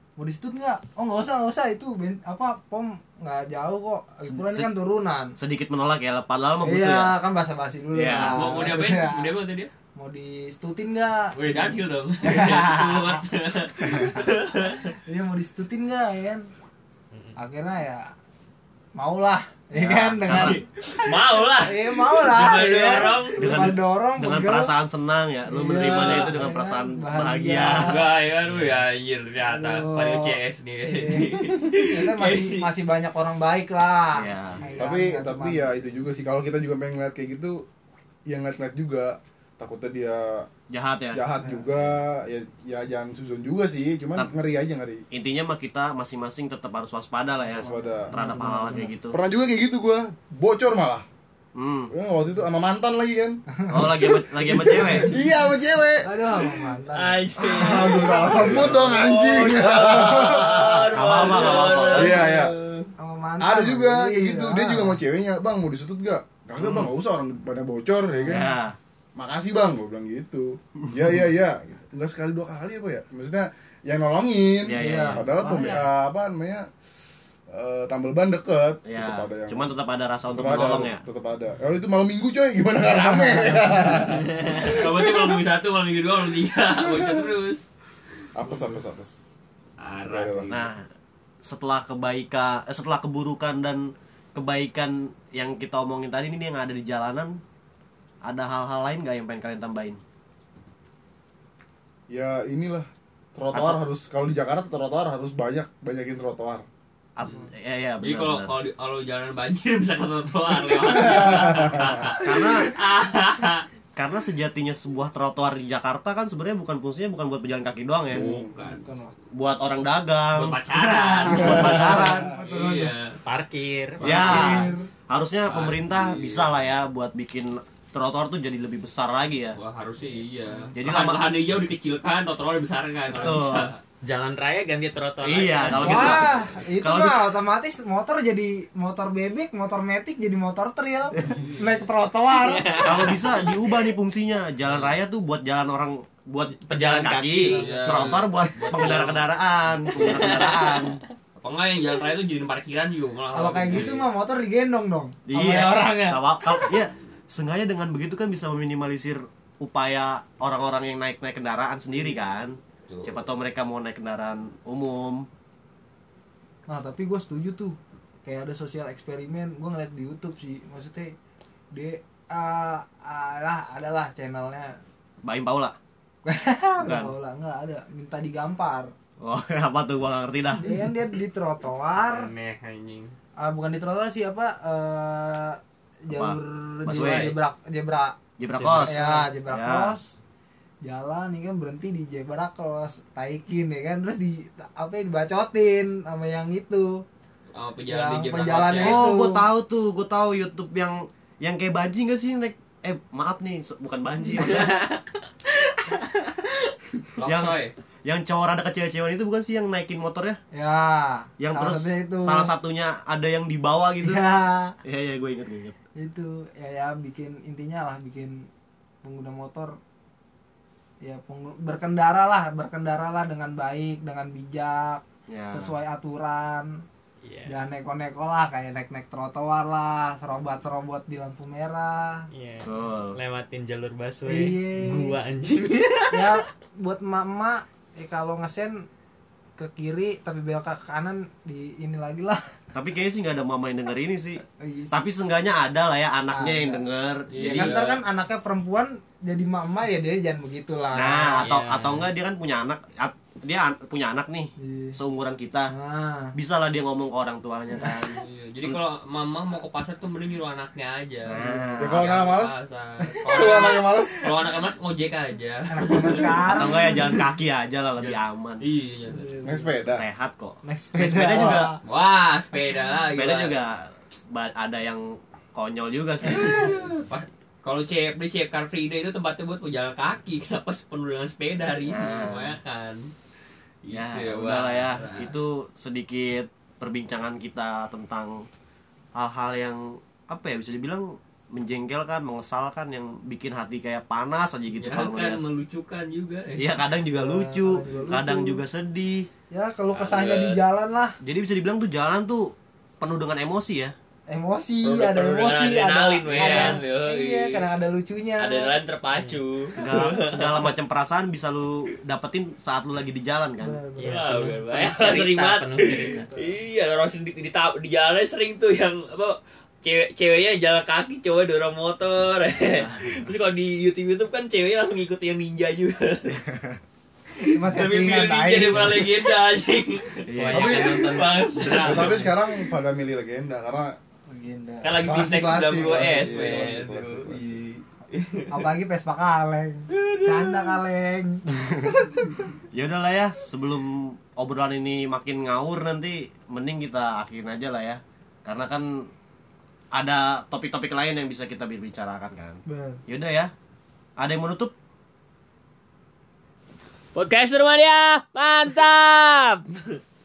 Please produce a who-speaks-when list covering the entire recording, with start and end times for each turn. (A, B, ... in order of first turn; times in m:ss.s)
0:00.2-0:05.3 A
0:04.2-0:04.7 B
0:05.4-0:07.1 B
0:06.6-0:09.3 A
0:07.9-0:08.4 B
0:08.2-0:09.7 C
0:09.9-0:13.2 A
0:11.3-0:14.9 C
0:15.1-0:16.4 A
0:17.4-0:18.0 A
0:19.0-0:20.6 A
0:19.7-0:20.6 B
0:20.2-0:23.6 C
0:21.6-0:24.7 A
0:23.4-0:28.0 B
0:25.5-0:28.1 A
0:26.0-0:26.3 C
0:27.9-0:32.6 C
0:28.5-0:28.8 D
0:29.4-0:35.7 A
0:34.1-0:34.6 B
0:34.8-0:37.6 E
0:38.3-0:40.5 E
0:40.7-0:41.2 B
0:41.1-0:45.0 E
0:41.4-0:41.7 A
0:45.1-0:49.2 B
0:47.6-0:48.2 E
0:47.6-0:48.9 A
0:49.1-0:51.0 E
0:51.5-0:51.9 B
0:51.9-0:53.4 E
0:53.6-0:54.2 A
0:53.7-0:55.2 B
0:54.5-0:56.4 E
0:54.8-0:55.1 A
0:56.0-0:57.2 A
0:56.9-1:02.4 C
0:57.4-1:00.9 E
0:57.8-0:58.7 A
1:00.2-1:02.2 B
1:01.4-1:02.4 A
1:01.9-1:02.5 E
1:03.0-1:05.0 A
1:03.4-1:08.5 E
1:06.6-1:06.9 B
1:08.2-1:08.8 B
1:09.2-1:16.7 E
1:14.6-1:15.3 B
1:14.8-1:15.8 A
1:17.5-1:19.7 E
1:18.8-1:21.0 B
1:20.3-1:25.1 E
1:22.9-1:23.9 A
1:24.2-1:24.7 D
1:24.6-1:27.6 C
1:26.9-1:27.2 E
1:28.4-1:29.2 E
1:28.5-1:28.8 C
1:29.8-1:30.5 C
1:30.0-1:30.7 E
1:30.5-1:30.9 B
1:31.4-1:37.4 B
1:38.2-1:40.0 B
1:42.1-1:46.6 E
1:43.5-1:43.8 B
1:47.2-1:48.5 B
1:48.0-1:53.6 C
1:51.0-1:51.4 A
1:51.3-1:51.8 E
1:52.2-1:52.7 B
1:54.0-1:58.3 B
1:58.1-1:58.8 C
1:58.1-1:58.6 E
1:58.6-1:59.1 A
1:59.3-2:02.3 B
2:00.3-2:03.2 C
2:00.9-2:02.9 A
2:03.2-2:04.5 D
2:04.0-2:09.6 B
2:04.0-2:04.9 A
2:05.4-2:06.5 C
2:09.5-2:13.8 C
2:10.8-2:11.2 B
2:13.1-2:13.7 B
2:14.0-2:16.4 D
2:15.2-2:17.3 B
2:15.7-2:23.1 A
2:16.0-2:16.3 C
2:21.3-2:21.8 C
2:22.3-2:23.9 D
2:22.8-2:31.0 B
2:24.6-2:24.9 C
2:26.6-2:27.9 D
2:27.5-2:28.2 A
2:27.5-2:29.3 C
2:29.9-2:31.1 D
2:31.4-2:34.0 C
2:33.3-2:36.8 A
2:35.2-2:45.3 B
2:42.9-2:43.2 C
2:46.7-2:51.1 A
2:51.7-2:54.8 A
2:55.2-2:55.8 B
2:56.2-2:58.9 A
2:56.8-2:57.1 B
2:59.2-3:00.6 B
3:00.6-3:02.3 A
3:02.0-3:03.1 C
3:03.4-3:08.2 A
3:06.1-3:07.4 B
3:08.4-3:09.9 B
3:08.5-3:09.3 C
3:08.8-3:10.1 A
3:10.8-3:17.0 A
3:17.5-3:19.1 C
3:17.9-3:19.5 A
3:18.8-3:24.7 B
3:24.3-3:27.2 D
3:27.2-3:27.7 C
3:27.2-3:30.4 B
3:30.5-3:32.5 A
3:31.4-3:34.2 B
3:34.0-3:34.7 A
3:34.8-3:35.8 B
3:36.0-3:38.5 A
3:39.0-3:39.8 A
3:41.0-3:46.8 A
3:45.3-3:45.7 B
3:47.2-3:47.5 D
3:47.4-3:52.3 A
3:52.3-3:56.4 D
3:52.6-3:53.2 B
3:54.2-3:55.2 A
3:56.1-3:58.8 A
3:59.6-4:02.4 A
4:02.7-4:07.7 B
4:04.6-4:05.0 A
4:06.3-4:11.5 A
4:07.3-4:08.0 C
4:10.9-4:15.7 B
4:11.4-4:12.1 D
4:14.6-4:15.0 A
4:15.7-4:16.3 A
4:16.3-4:18.8 B
4:18.2-4:26.8 C
4:21.3-4:22.0 B
4:21.8-4:22.6 E
4:23.3-4:24.3 E
4:25.7-4:27.2 A
4:26.5-4:28.6 B
4:28.0-4:29.4 C
4:29.1-4:29.7 A
4:29.4-4:30.0 E
4:29.9-4:31.7 B
4:30.6-4:31.8 A
4:31.8-4:33.6 C
4:33.1-4:36.8 B
4:36.2-4:43.1 C
4:41.9-4:42.5 B
4:43.8-4:45.3 C
4:43.9-4:48.4 B
4:49.2-4:55.4 B
4:54.7-4:56.8 C
4:56.5-4:59.3 B
4:57.1-4:58.6 A
4:59.5-5:01.1 A
4:59.9-5:00.6 C
5:01.2-5:03.9 B
5:04.3-5:08.7 A
5:04.8-5:07.7 C
5:06.3-5:06.8 B
5:08.4-5:10.7 C
5:09.1-5:09.4 D
5:09.8-5:13.8 B
5:13.6-5:14.6 A
5:13.9-5:16.3 D
5:14.1-5:26.4 C
5:16.2-5:16.6 A
5:22.7-5:23.3 B
5:27.4-5:32.5 C
5:27.5-5:29.1 A
5:30.2-5:32.1 B
5:30.4-5:30.7 D
5:30.5-5:31.0 E
5:31.8-5:34.0 E
5:34.3-5:35.0 A
5:34.8-5:37.4 C
5:35.0-5:37.8 E
5:38.1-5:38.4 C
5:38.5-5:42.3 A
5:39.9-5:40.7 C
5:42.7-5:49.1 B
5:49.9-5:53.5 B
5:52.7-5:53.0 A
5:54.2-5:54.7 B
5:57.1-5:59.7 C